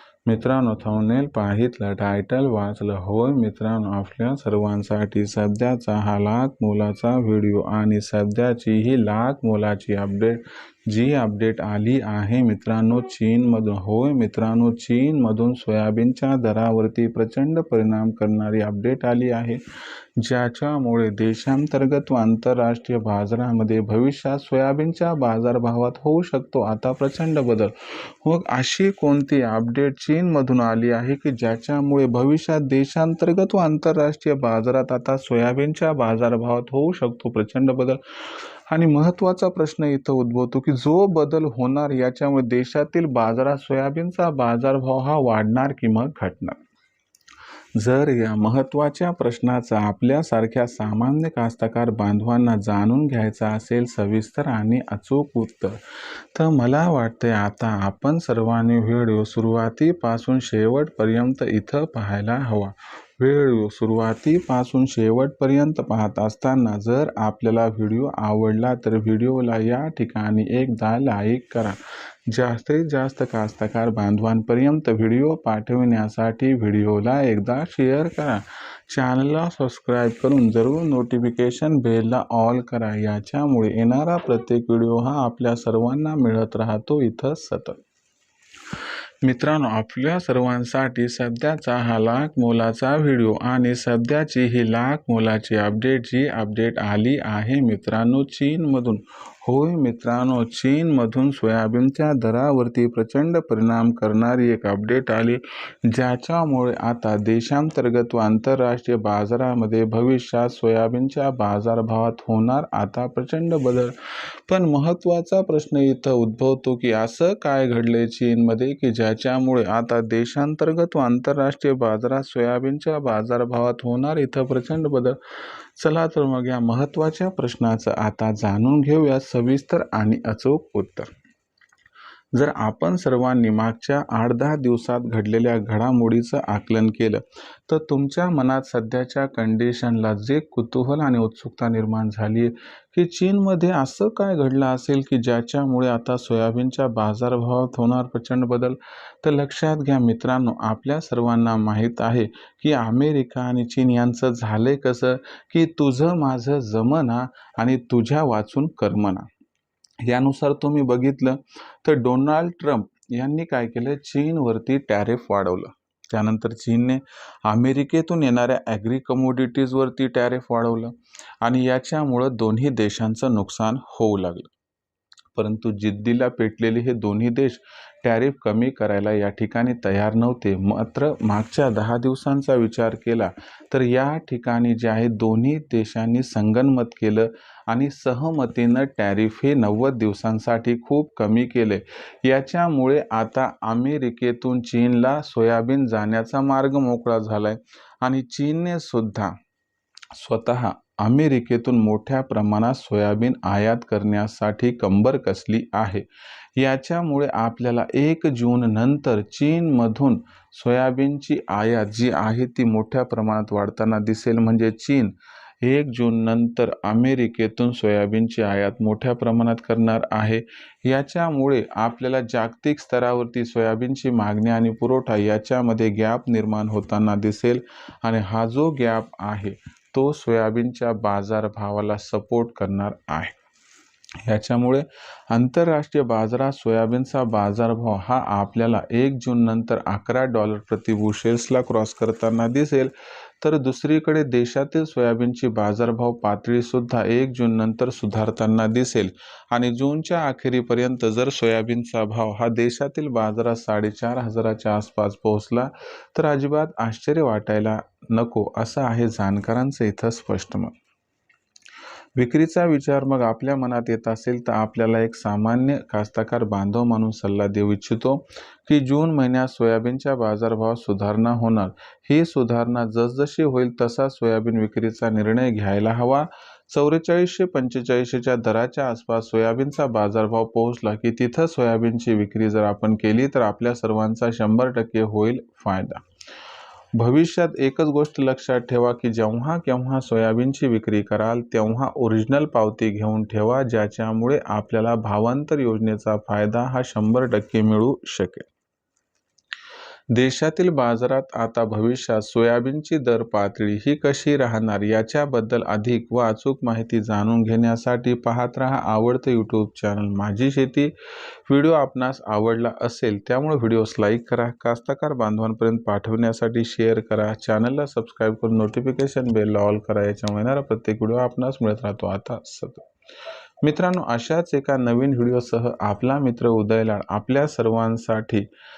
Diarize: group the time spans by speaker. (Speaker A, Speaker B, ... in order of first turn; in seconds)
Speaker A: 0.3-19.6, 20.2-46.6, 47.8-55.8, 56.3-87.8, 89.2-113.9, 114.5-125.2, 125.8-131.1, 132.3-159.2, 160.1-174.5, 175.3-199.3, 200.2-206.0, 206.6-233.3, 234.2-260.8, 262.2-286.0, 287.0-298.5, 300.1-310.9, 311.5-322.9, 323.6-328.4